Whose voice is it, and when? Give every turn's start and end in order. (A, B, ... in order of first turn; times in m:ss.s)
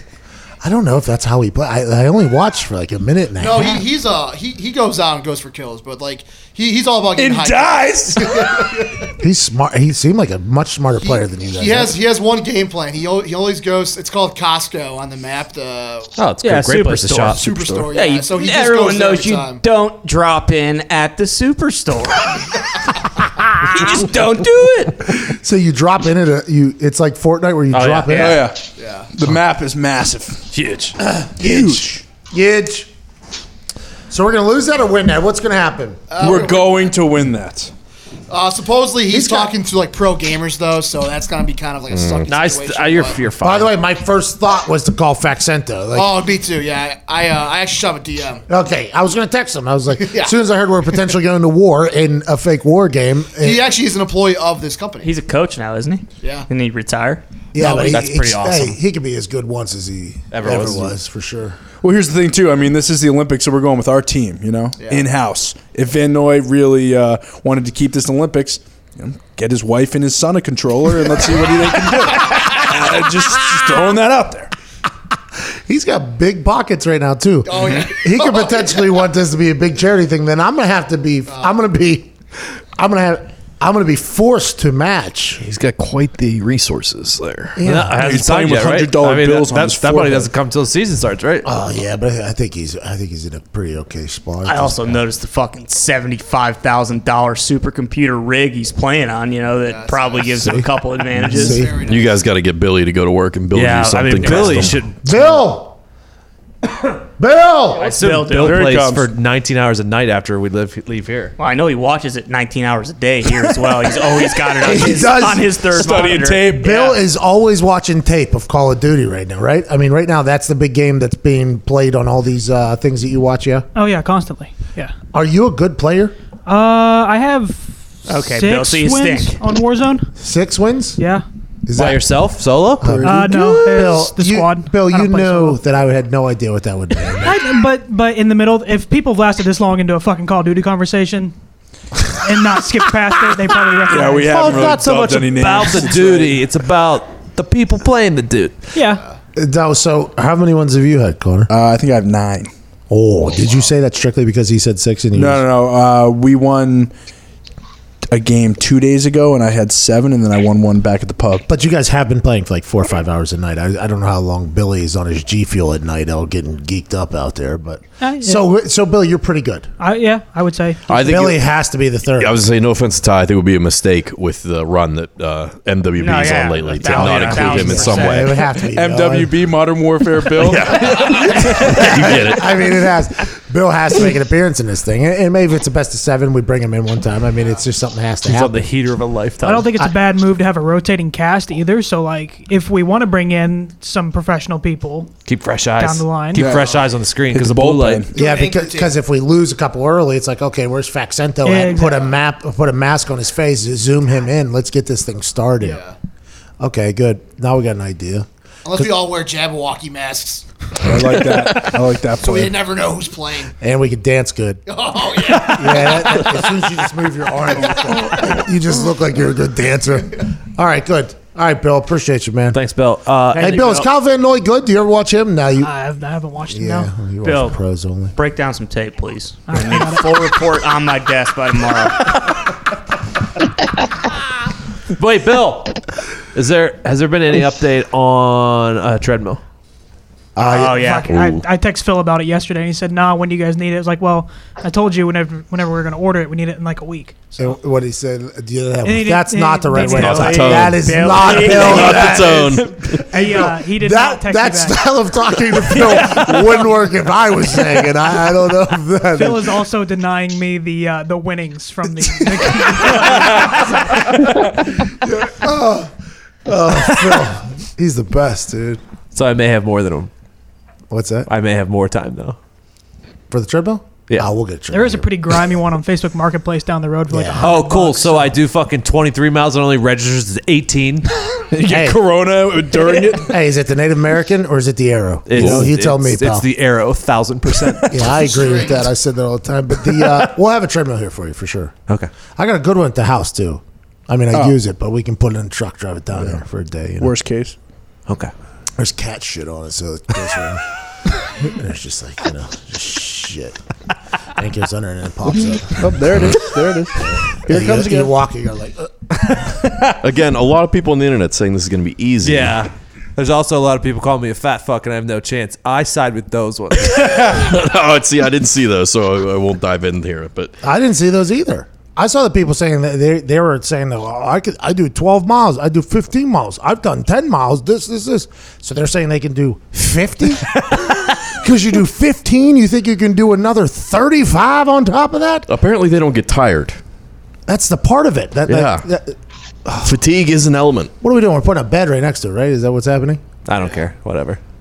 0:00.6-0:03.8 A
0:03.4-0:09.1 B
0:07.2-0:08.7 C
0:09.2-0:12.0 A
0:11.0-0:16.1 B
0:16.2-0:17.9 D
0:16.4-0:22.6 E
0:17.3-0:19.6 B
0:23.4-0:25.2 E
0:25.1-0:28.4 A
0:27.7-0:28.3 D
0:28.1-0:30.4 C
0:28.1-0:28.4 E
0:28.8-0:29.1 B
0:30.5-0:30.9 D
0:31.0-0:32.9 A
0:31.4-0:32.0 C
0:34.1-0:36.1 A
0:36.1-0:37.0 B
0:36.2-0:37.7 C
0:38.3-0:43.2 B
0:39.1-0:39.5 A
0:41.9-0:42.3 F
0:42.3-0:43.7 D
0:43.4-0:46.2 A
0:45.9-0:48.4 B
0:48.5-0:53.6 A
0:50.0-0:50.4 B
0:53.4-0:55.1 B
0:55.0-0:57.2 E
0:56.2-0:56.5 B
0:57.5-1:01.6 A
0:57.6-0:58.8 D
1:00.3-1:01.0 D
1:01.8-1:14.5 C
1:04.8-1:05.1 B
1:15.6-1:22.1 A
1:17.4-1:19.0 B
1:21.3-1:21.6 B
1:22.8-1:25.4 A
1:25.4-1:27.6 F
1:27.6-1:27.9 A
1:27.6-1:31.5 D
1:27.9-1:30.3 C
1:31.4-1:35.0 A
1:34.4-1:41.6 E
1:39.6-1:40.4 B
1:40.3-1:41.8 A
1:41.3-1:42.2 B
1:41.8-1:44.8 F
1:43.5-1:45.4 D
1:45.0-1:45.8 A
1:47.2-1:47.9 A
1:47.7-1:48.7 E
1:47.8-1:51.3 D
1:48.2-1:49.1 C
1:51.4-1:56.6 E
1:53.3-1:54.0 C
1:54.6-1:55.5 A
1:55.7-1:57.0 C
1:56.6-2:03.7 A
2:03.7-2:04.9 G
2:05.1-2:06.1 A
2:06.4-2:10.1 G
2:08.1-2:09.4 E
2:10.2-2:11.0 A
2:11.0-2:11.2 G
2:11.6-2:12.0 A
2:11.7-2:13.0 D
2:12.8-2:17.4 A
2:12.8-2:13.2 C
2:13.0-2:15.6 G
2:17.2-2:21.3 G
2:22.1-2:24.7 G
2:23.9-2:26.4 C
2:24.2-2:28.6 D
2:28.7-2:29.0 G
2:29.4-2:31.5 A
2:31.5-2:32.5 C
2:32.9-2:35.4 A
2:35.1-2:36.9 C
2:38.1-2:41.4 C
2:41.5-2:49.7 A
2:48.0-2:48.4 G
2:49.8-2:50.8 G
2:50.9-2:51.4 F
2:50.9-2:52.4 A
2:52.2-2:58.4 F
2:56.0-2:58.3 E
2:56.9-2:59.4 A
2:58.7-3:01.8 C
3:00.3-3:02.7 F
3:00.9-3:08.7 A
3:08.2-3:09.7 D
3:09.4-3:15.1 G
3:15.2-3:18.0 D
3:15.8-3:16.5 G
3:16.3-3:16.7 C
3:16.5-3:16.9 B
3:17.3-3:18.2 C
3:18.1-3:19.0 B
3:18.1-3:25.8 A
3:21.4-3:22.1 G
3:25.6-3:25.9 B
3:26.6-3:28.9 A
3:28.6-3:30.4 B
3:30.8-3:32.6 C
3:32.2-3:33.5 B
3:33.6-3:34.6 A
3:34.6-3:36.6 B
3:35.3-3:42.6 A
3:37.5-3:38.1 B
3:42.5-3:43.6 D
3:43.3-3:43.9 E
3:43.4-3:45.7 A
3:45.6-3:46.9 G
3:46.5-3:48.1 A
3:47.2-3:47.6 E
3:48.2-3:52.3 E
3:49.5-3:50.2 G
3:54.9-3:55.8 D
3:56.3-3:59.4 D
4:00.4-4:01.0 A
4:00.4-4:01.1 E
4:00.7-4:07.5 G
4:01.1-4:01.4 F
4:07.4-4:19.6 A
4:08.8-4:10.7 G
4:09.7-4:13.1 F
4:10.2-4:12.4 E
4:12.9-4:14.9 G
4:19.1-4:23.8 G
4:22.1-4:24.0 A
4:24.8-4:25.9 A
4:26.4-4:28.8 A
4:29.1-4:30.1 D
4:30.9-4:31.3 A
4:31.3-4:32.4 D
4:33.3-4:35.4 A
4:34.7-4:38.3 G
4:37.1-4:37.5 A
4:37.4-4:41.1 D
4:41.5-4:43.3 C
4:41.7-4:42.0 A
4:43.1-4:46.5 A
4:45.2-4:47.9 D
4:45.4-4:45.6 C
4:47.9-4:51.7 A
4:48.1-4:48.9 B
4:52.4-4:57.1 A
4:57.0-4:57.5 C
4:58.1-4:58.3 D
4:58.8-5:00.6 A
5:01.3-5:03.6 A
5:04.3-5:06.4 A
5:05.3-5:08.1 C
5:07.0-5:09.5 A
5:09.4-5:09.9 D
5:10.0-5:12.6 F
5:12.2-5:17.0 D
5:16.8-5:20.6 F
5:20.6-5:35.5 A
5:35.5-5:36.8 F
5:37.5-5:40.0 A
5:38.5-5:38.9 F
5:39.8-5:40.9 F
5:41.0-5:43.2 A
5:43.4-5:44.4 D